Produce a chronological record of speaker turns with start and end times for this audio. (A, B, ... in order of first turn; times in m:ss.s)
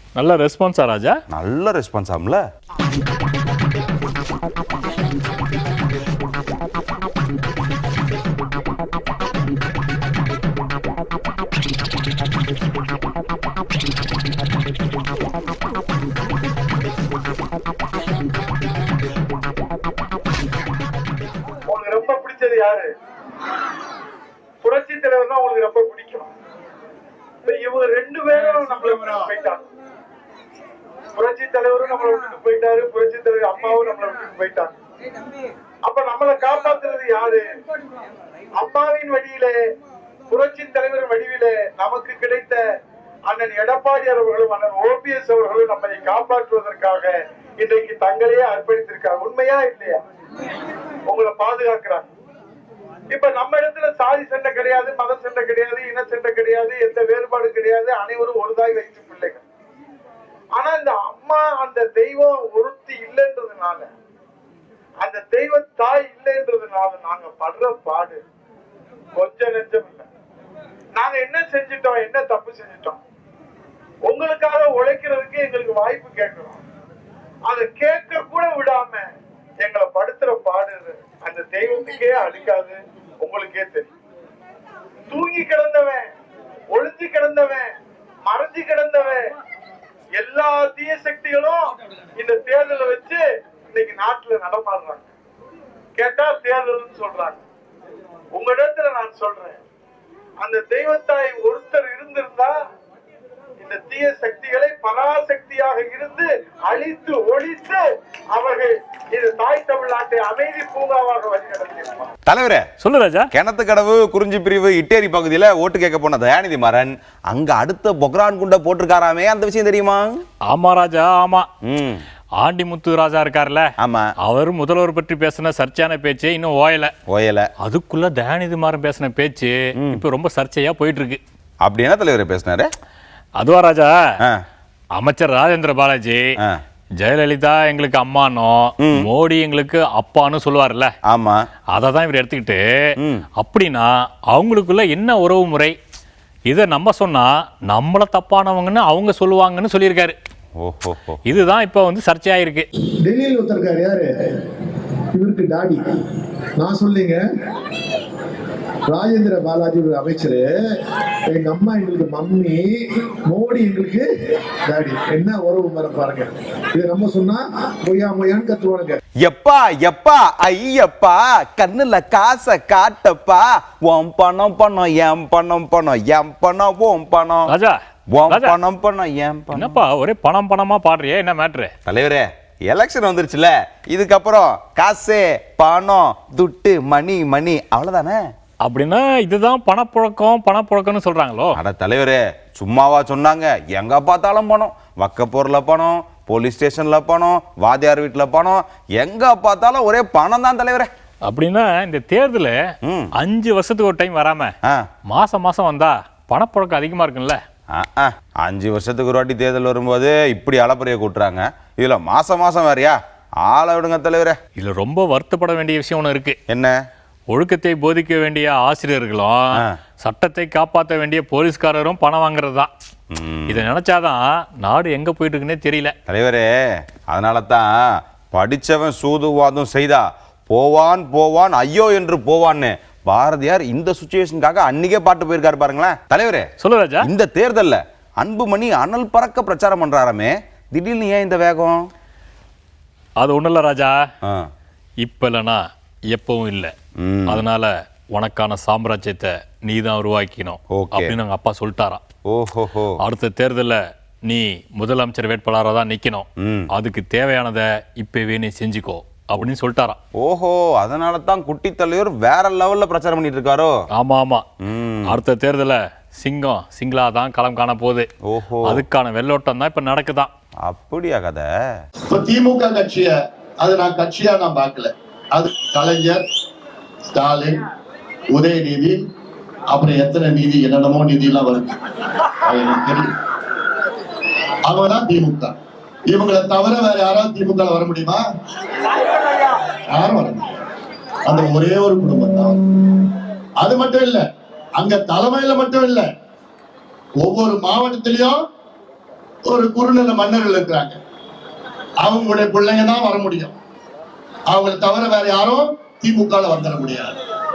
0:00.2-0:01.2 A
0:01.3-0:02.4 B
0:21.7-0:22.9 C
0:24.6-0:26.3 C
0:27.4-0:29.6 C
0:31.2-0:34.7 C
0:35.8-0:37.4 C
0:38.6-0:39.6 C
0:40.3-0:42.6 C
0:43.3-0:50.0 C
0:51.1-0:52.1 C
0:53.1-0:59.4 C
1:00.6-1:03.9 C
1:05.0-1:08.2 C
1:09.2-1:10.1 C
1:11.0-1:13.0 C
1:14.1-1:16.6 C
1:17.5-1:19.1 C
1:19.6-1:23.9 C
1:25.1-1:26.1 C
1:26.7-1:27.7 C
1:28.3-1:29.3 C
1:30.2-1:35.1 C
1:36.0-1:37.4 C
1:38.4-1:39.6 C
1:40.4-1:42.5 C
1:43.6-1:52.1 C
1:52.3-1:52.7 B
1:52.8-1:53.3 A
1:53.3-2:00.2 B
2:00.5-2:01.5 A
2:01.6-2:02.0 B
2:02.4-2:03.7 A
2:03.8-2:04.1 B
2:04.2-2:06.9 A
2:07.1-2:07.5 B
2:07.6-2:11.2 A
2:09.8-2:10.0 B
2:11.6-2:12.7 B
2:13.4-2:13.9 A
2:15.0-2:16.2 A
2:17.0-2:20.9 A
2:18.8-2:19.1 B
2:21.1-2:21.4 B
2:21.7-2:22.6 A
2:23.4-2:25.7 A
2:26.5-2:30.2 A
2:30.6-2:31.2 B
2:31.3-2:32.7 A
2:33.0-2:34.1 D
2:35.1-2:35.8 D
2:36.6-2:37.2 D
2:38.9-2:40.5 D
2:41.3-2:42.7 D
2:43.3-2:44.1 D
2:44.7-2:49.0 D
2:49.2-2:57.5 B
2:57.5-2:57.8 A
2:58.1-2:59.8 B
2:58.3-2:58.6 A
2:59.6-3:01.7 A
3:01.9-3:08.2 B
3:08.6-3:11.6 A
3:11.6-3:20.9 B
3:21.3-3:22.6 A
3:22.8-3:23.1 B
3:23.2-3:24.5 A
3:25.1-3:27.4 A
3:27.7-3:34.4 B
3:34.6-3:36.4 A
3:36.5-3:36.8 B
3:37.3-3:39.5 A
3:40.0-3:42.7 A
3:43.1-3:43.7 B
3:43.5-3:45.9 A
3:46.1-3:56.5 B
3:56.6-3:57.1 A
3:57.0-4:01.8 B
4:03.2-4:04.0 A
4:05.0-4:05.6 A
4:06.1-4:06.7 A
4:07.0-4:07.4 B
4:07.3-4:12.0 A
4:10.7-4:11.2 B
4:12.3-4:13.0 B
4:13.0-4:20.0 A
4:16.4-4:16.7 B
4:20.2-4:23.8 B
4:24.0-4:24.4 A
4:24.6-4:25.2 B
4:25.1-4:28.1 A
4:28.3-4:28.8 B
4:28.7-4:30.3 A
4:30.6-4:31.5 B
4:32.1-4:36.2 E
4:37.1-4:37.6 E
4:38.3-4:39.0 E
4:39.7-4:41.8 E
4:42.4-4:43.1 E
4:44.7-4:45.5 E
4:46.1-4:48.2 E
4:49.9-4:50.6 E
4:51.3-4:52.6 E
4:53.6-4:54.2 E
4:54.8-4:56.1 E
4:57.2-4:58.4 E
4:59.5-5:01.0 E
5:02.0-5:03.6 E
5:04.5-5:07.2 E